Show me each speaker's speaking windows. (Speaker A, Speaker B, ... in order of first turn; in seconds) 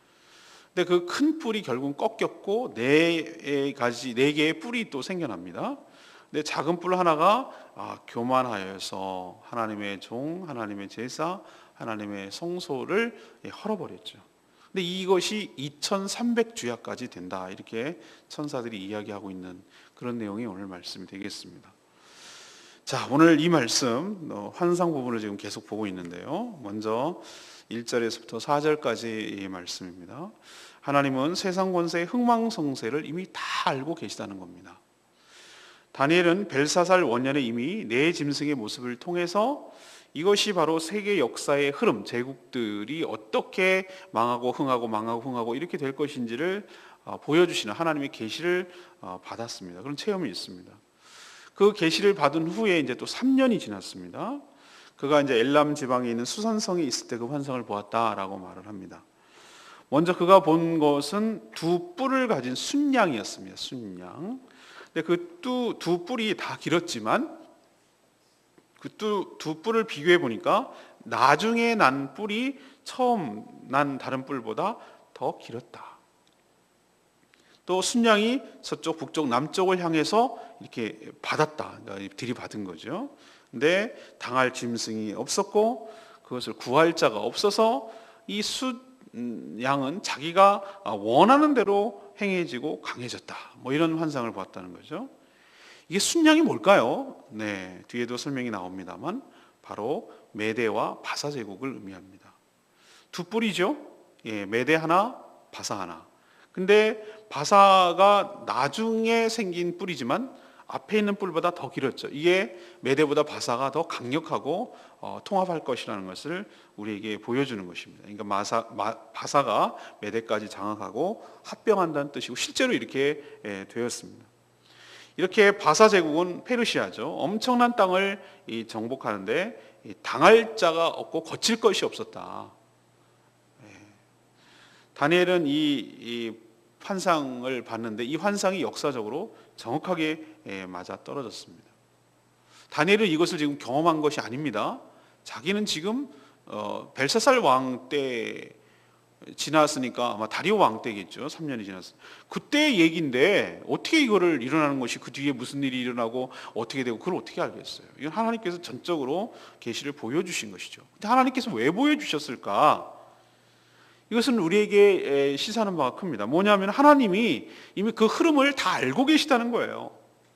Speaker A: 0.7-21.7, 22.9-34.8, 35.9-50.8, 51.5-54.4, 55.0-59.0, 59.9-67.4, 68.8-76.0, 77.7-95.1, 95.9-102.3, 103.1-124.3, 125.2-132.5, 133.6-133.9, 134.9-141.7, 142.7-148.6, 149.2-162.9, 164.1-169.9